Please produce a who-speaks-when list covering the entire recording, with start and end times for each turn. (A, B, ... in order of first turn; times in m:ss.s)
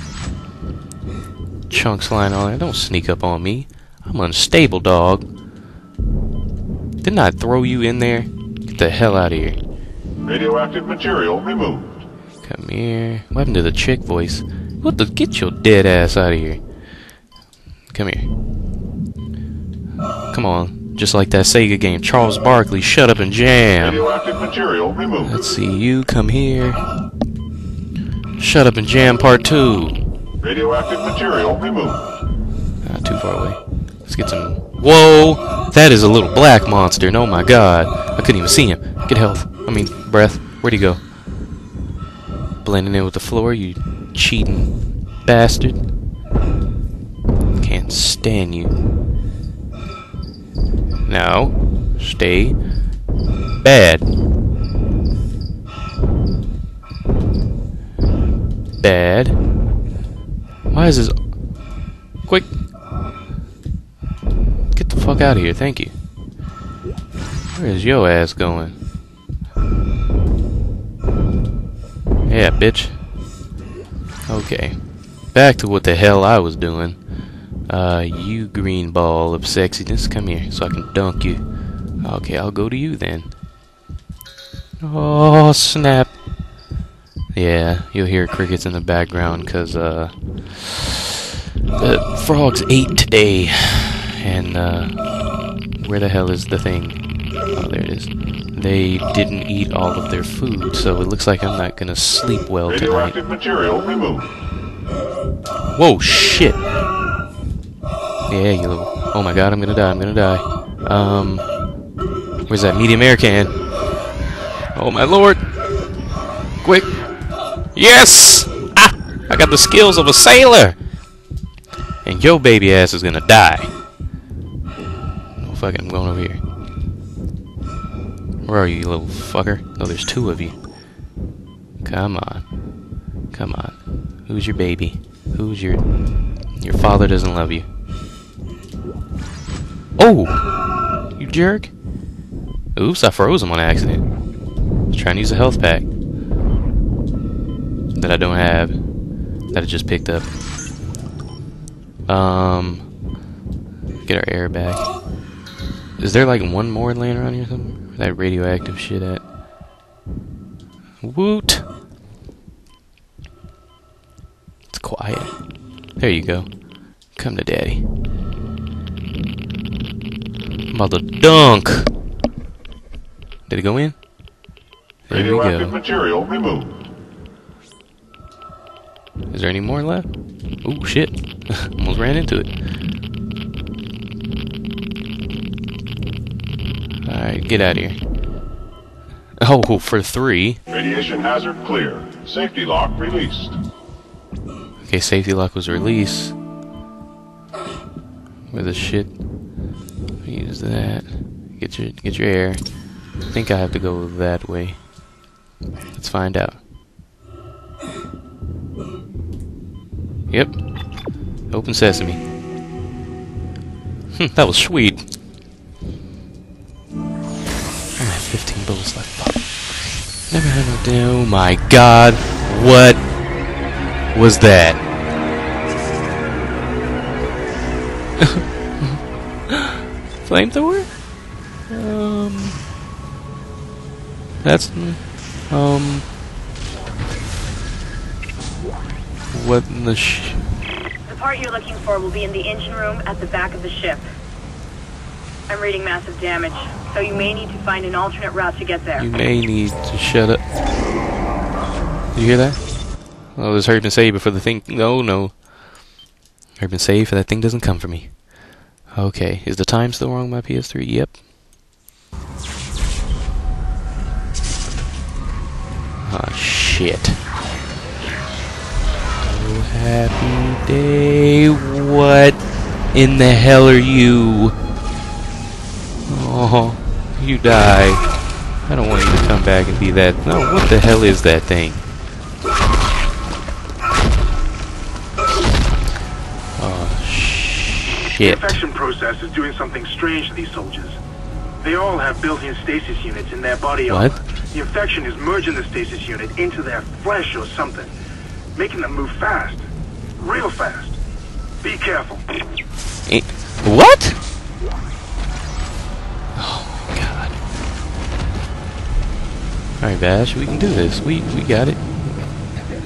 0:01.7-0:05.2 A
0:07.0-0:09.6 A
0:10.2-0:12.0 B
0:12.4-0:16.6 A
0:17.9-0:18.3 A
0:20.3-0:24.1 A
0:23.8-0:25.3 B
0:25.2-0:26.8 A
0:28.4-0:30.0 A
0:30.4-0:32.0 B
0:32.8-0:41.0 A
0:42.6-0:45.9 A
0:47.6-0:48.7 A
0:51.0-0:52.6 A
0:53.6-0:54.0 A
0:58.8-0:59.4 A
1:00.7-1:01.1 A
1:02.2-1:02.5 A
1:04.7-1:05.9 A
1:07.5-1:08.7 A
1:12.3-1:13.0 A
1:14.3-1:14.8 A
1:15.3-1:17.0 A
1:17.7-1:21.4 A
1:22.0-1:23.3 A
1:24.8-1:26.1 A
1:27.3-1:31.1 A
1:31.8-1:35.0 A
1:35.8-1:43.2 A
1:42.7-1:44.3 B
1:45.7-1:46.6 A
1:48.3-1:51.5 A
1:52.5-1:53.5 A
1:54.7-1:55.4 A
1:56.6-1:57.0 A
1:57.7-2:00.8 A
2:02.0-2:03.7 A
2:05.4-2:06.4 A
2:08.4-2:10.6 A
2:11.8-2:12.5 A
2:13.3-2:15.8 A
2:16.6-2:17.6 A
2:20.0-2:20.4 A
2:21.2-2:21.7 A
2:22.7-2:24.0 A
2:24.9-2:25.9 A
2:27.9-2:28.8 A
2:29.5-2:30.3 A
2:32.1-2:32.9 A
2:34.0-2:34.9 A
2:36.0-2:39.2 A
2:41.0-2:41.6 A
2:44.7-2:45.4 A
2:46.0-2:46.6 A
2:47.1-2:47.8 A
2:50.7-2:51.9 A
2:53.5-2:54.0 A
2:55.1-2:55.8 A
2:55.1-2:56.8 B
2:59.3-3:00.1 A
3:00.6-3:02.5 A
3:07.0-3:08.0 A
3:09.4-3:10.6 A
3:10.7-3:13.6 B
3:14.8-3:16.3 A
3:18.5-3:19.2 A
3:20.2-3:24.9 A
3:25.9-3:26.6 A
3:30.3-3:30.6 A
3:31.5-3:32.2 A
3:34.1-3:35.0 A
3:38.0-3:39.4 A
3:40.3-3:43.0 A
3:44.1-3:44.8 A
3:48.2-3:50.9 A
3:51.7-3:52.6 A
3:54.4-3:56.1 A
3:59.3-4:00.5 A
4:01.0-4:04.0 C
4:05.5-4:09.1 C
4:09.0-4:10.4 A
4:12.1-4:12.6 A
4:13.3-4:15.5 A
4:16.6-4:18.3 A
4:18.9-4:21.2 A
4:26.0-4:27.2 A
4:29.2-4:34.6 A
4:36.1-4:38.0 A
4:38.6-4:41.8 A
4:46.6-4:48.6 A
4:48.2-4:51.0 D
4:51.6-4:57.9 D
4:53.9-4:54.2 A
4:58.6-4:59.6 D
5:00.2-5:01.0 D
5:01.6-5:02.2 D
5:03.1-5:04.2 A
5:06.3-5:07.4 A
5:09.8-5:12.1 A